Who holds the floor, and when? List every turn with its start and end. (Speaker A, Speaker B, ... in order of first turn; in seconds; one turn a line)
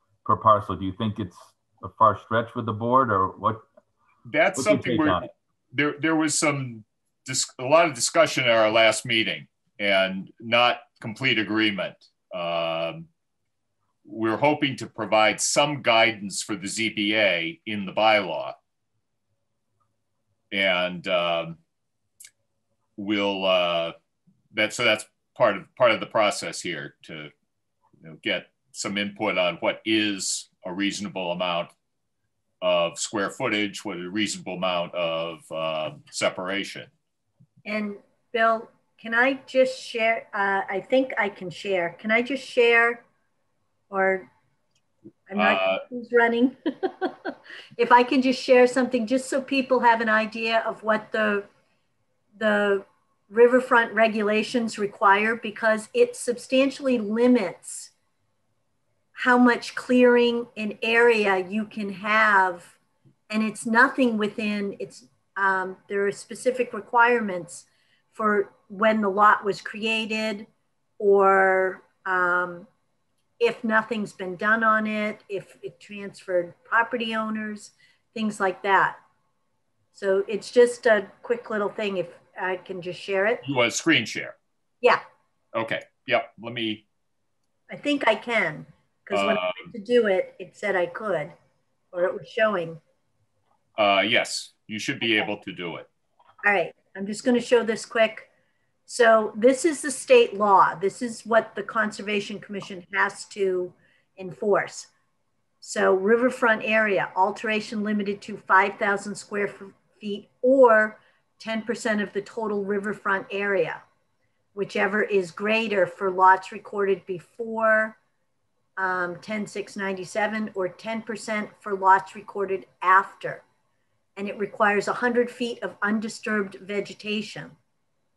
Speaker A: 0.2-3.6
Speaker B: 4.3-13.1
Speaker A: 4.5-5.3
Speaker B: 14.1-18.6
Speaker B: 20.5-21.6
Speaker B: 23.0-23.9
Speaker B: 24.5-27.3
Speaker B: 28.0-31.7
Speaker B: 32.6-36.9
Speaker C: 37.6-43.0
Speaker C: 43.9-44.3
Speaker C: 45.3-51.5
Speaker B: 45.4-45.8
Speaker C: 52.4-57.9
Speaker C: 59.1-62.8
Speaker C: 63.3-70.5
Speaker C: 71.0-72.7
Speaker C: 73.4-79.0
Speaker C: 79.9-83.4
Speaker B: 83.4-84.4
Speaker B: 85.5-86.8
Speaker C: 87.7-91.3
Speaker B: 89.1-89.7
Speaker C: 91.9-92.8
Speaker B: 93.8-95.9
Speaker C: 96.4-98.3
Speaker C: 98.9-104.9
Speaker C: 105.6-113.8
Speaker C: 114.5-118.0
Speaker C: 118.8-123.4
Speaker C: 124.2-127.6